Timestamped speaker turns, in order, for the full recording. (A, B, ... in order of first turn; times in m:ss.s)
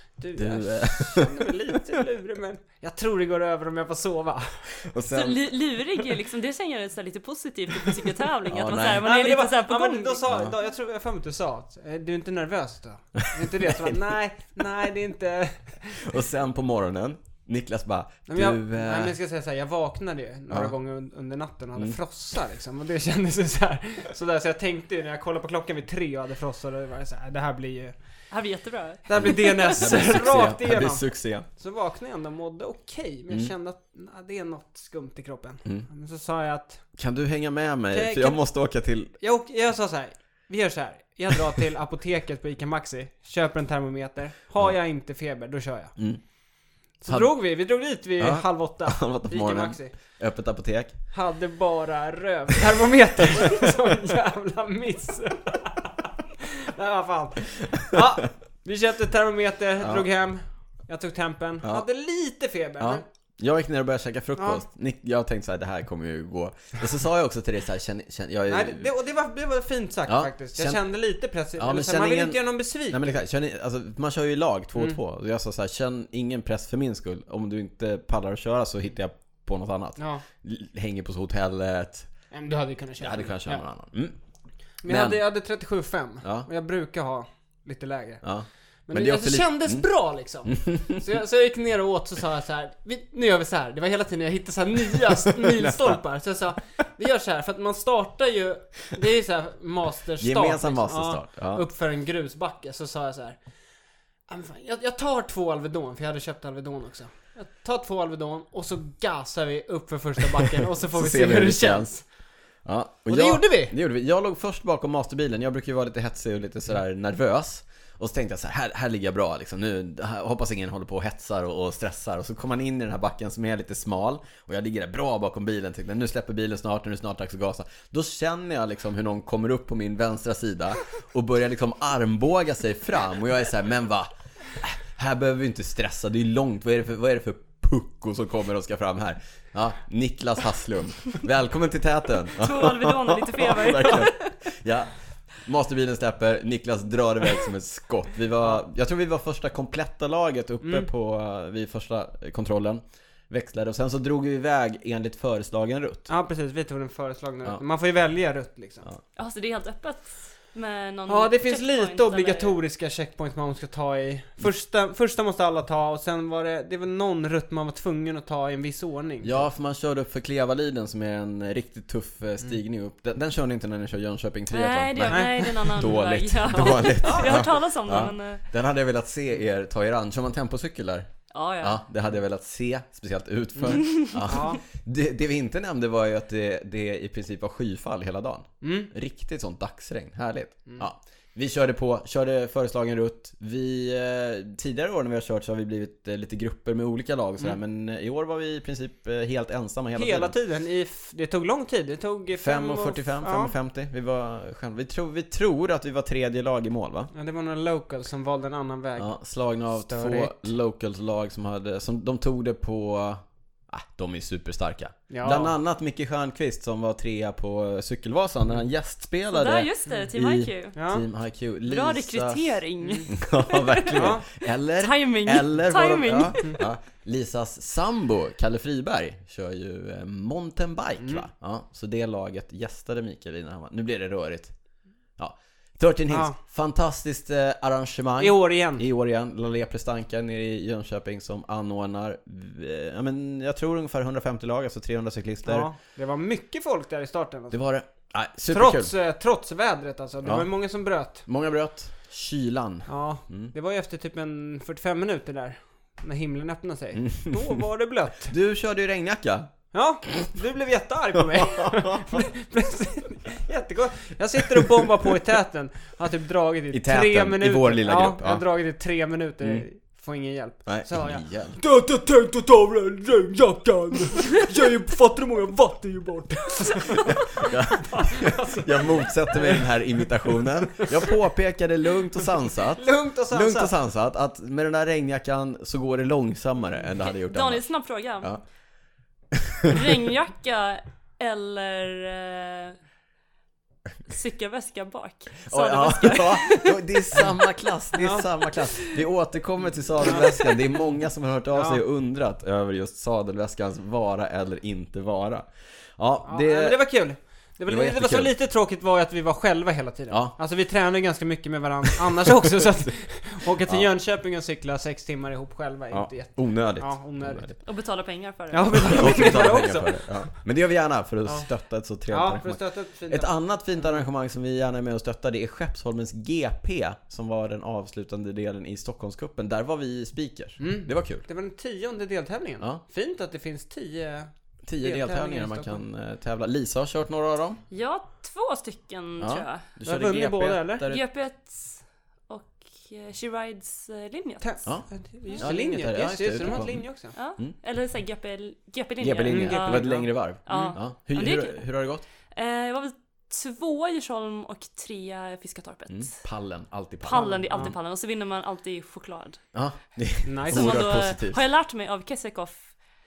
0:00.2-0:04.6 A
0:00.4-0:01.8 B
0:04.8-0:05.4 B
0:05.1-0:10.3 C
0:08.5-0:09.1 B
0:09.0-0:15.9 A
0:13.2-0:13.9 B
0:15.9-0:19.2 B
0:18.3-0:28.0 A
0:28.3-0:29.5 C
0:29.1-0:36.8 A
0:29.2-0:31.5 B
0:37.0-0:39.2 B
0:37.9-0:38.4 A
0:39.2-0:46.0 A
0:47.0-0:49.9 A
0:48.2-0:51.0 B
0:51.1-1:03.0 A
0:59.8-1:00.0 B
1:02.8-1:08.9 B
1:04.4-1:04.6 A
1:08.5-1:13.1 A
1:10.1-1:10.8 B
1:11.6-1:22.1 B
1:20.0-1:20.2 A
1:22.3-1:23.6 A
1:23.0-1:24.2 B
1:24.8-1:28.2 A
1:24.9-1:25.2 B
1:26.2-1:26.5 B
1:28.2-1:29.9 B
1:28.9-1:43.4 A
1:30.5-1:31.0 B
1:35.4-1:35.9 B
1:40.2-1:41.6 B
1:44.3-1:52.0 A
1:51.0-1:52.0 B
1:52.6-2:14.1 B
1:53.1-1:53.8 A
2:14.6-2:36.1 B
2:22.4-2:24.5 C
2:30.6-2:30.9 A
2:36.1-2:38.9 A
2:39.2-2:42.6 C
2:41.1-2:49.4 A
2:49.2-3:20.3 B
2:54.5-2:58.4 C
2:56.6-2:57.5 A
3:01.3-3:01.8 C
3:03.6-3:04.6 A
3:03.9-3:04.4 C
3:08.6-3:08.9 A
3:20.0-3:23.5 A
3:22.4-3:27.1 B
3:27.1-3:29.1 A
3:29.0-3:54.6 B
3:29.8-3:30.5 A
3:35.1-3:35.6 A
3:39.3-3:40.8 C
3:40.8-3:41.0 A
3:41.7-3:44.3 C
3:44.0-3:44.2 A
3:44.8-3:46.6 C
3:51.0-3:51.2 A
3:55.2-4:05.7 B
3:56.1-3:56.4 A
3:58.2-3:58.8 A
4:05.4-4:07.6 A
4:07.5-4:08.9 B
4:08.5-4:11.2 A
4:10.2-4:10.5 B
4:11.2-4:13.5 B
4:12.9-4:18.3 A
4:17.0-4:17.6 B
4:18.3-4:19.5 B
4:19.7-4:39.7 A
4:21.6-4:22.3 B
4:26.7-4:28.4 B
4:30.7-4:31.6 B
4:37.0-4:47.6 B
4:42.6-4:43.7 A
4:47.0-4:48.3 C
4:49.3-4:49.8 B
4:49.7-4:52.8 C
4:54.1-4:56.8 C
4:55.5-5:06.8 B
4:58.0-4:58.2 A
5:00.0-5:00.3 A
5:01.5-5:01.8 A
5:06.2-5:17.6 A
5:07.7-5:08.3 B
5:10.1-5:10.4 B
5:15.9-5:17.6 B
5:17.6-5:19.2 C
5:18.5-5:20.1 A
5:18.7-5:31.3 B
5:22.1-5:23.3 A
5:30.6-5:35.8 A
5:34.7-5:37.6 B
5:37.7-5:39.7 C
5:39.2-5:41.0 B
5:39.8-5:40.9 A
5:40.9-5:44.6 C
5:44.4-5:47.2 A
5:45.4-5:46.8 B
5:47.2-5:51.7 C
5:49.0-5:52.0 B
5:49.3-5:50.8 A
5:52.3-5:56.2 C
5:55.9-5:57.7 B
5:57.0-5:59.4 C
5:57.1-5:57.7 A
5:59.5-6:01.4 B
6:00.2-6:00.9 A
6:00.5-6:02.7 C